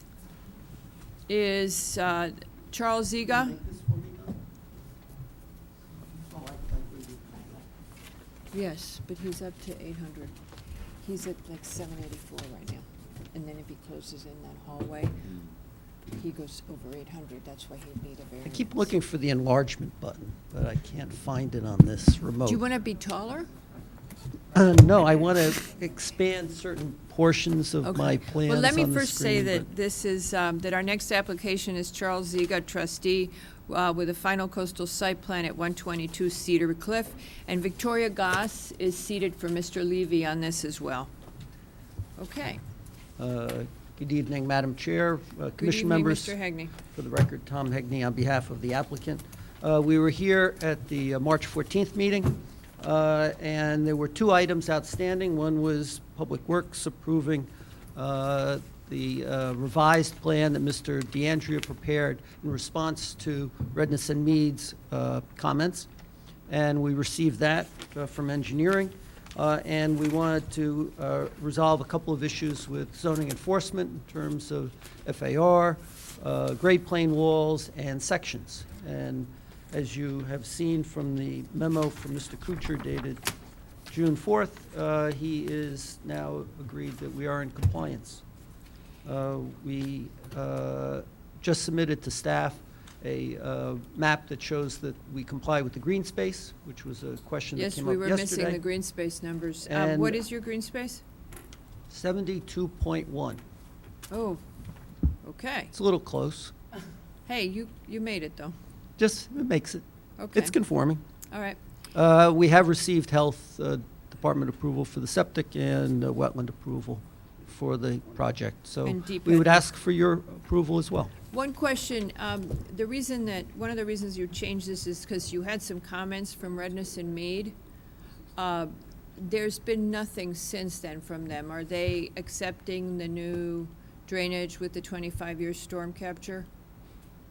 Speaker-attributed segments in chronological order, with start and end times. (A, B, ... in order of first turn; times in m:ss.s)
0:01.3-0:03.6 A
0:03.2-0:04.4 B
0:06.1-0:07.7 B
0:08.5-0:10.3 A
0:11.0-0:15.4 A
0:16.1-0:18.9 A
0:18.4-0:22.6 B
0:22.4-0:23.5 A
0:24.5-0:29.7 B
0:27.8-0:41.1 A
0:42.2-0:42.6 A
0:43.2-1:05.9 B
0:45.6-0:46.8 A
1:06.5-1:23.3 B
1:23.9-1:28.2 B
1:29.0-1:38.6 B
1:37.6-1:41.0 A
1:39.6-1:40.2 B
1:41.9-1:43.4 B
1:44.1-1:44.4 A
1:45.2-1:45.7 A
1:45.7-1:46.5 B
1:47.3-1:48.6 A
1:49.0-1:51.0 B
1:50.2-1:50.6 A
1:51.3-1:51.6 A
1:51.9-2:01.1 B
1:58.8-1:59.6 A
2:01.3-2:07.6 A
2:08.4-2:16.5 A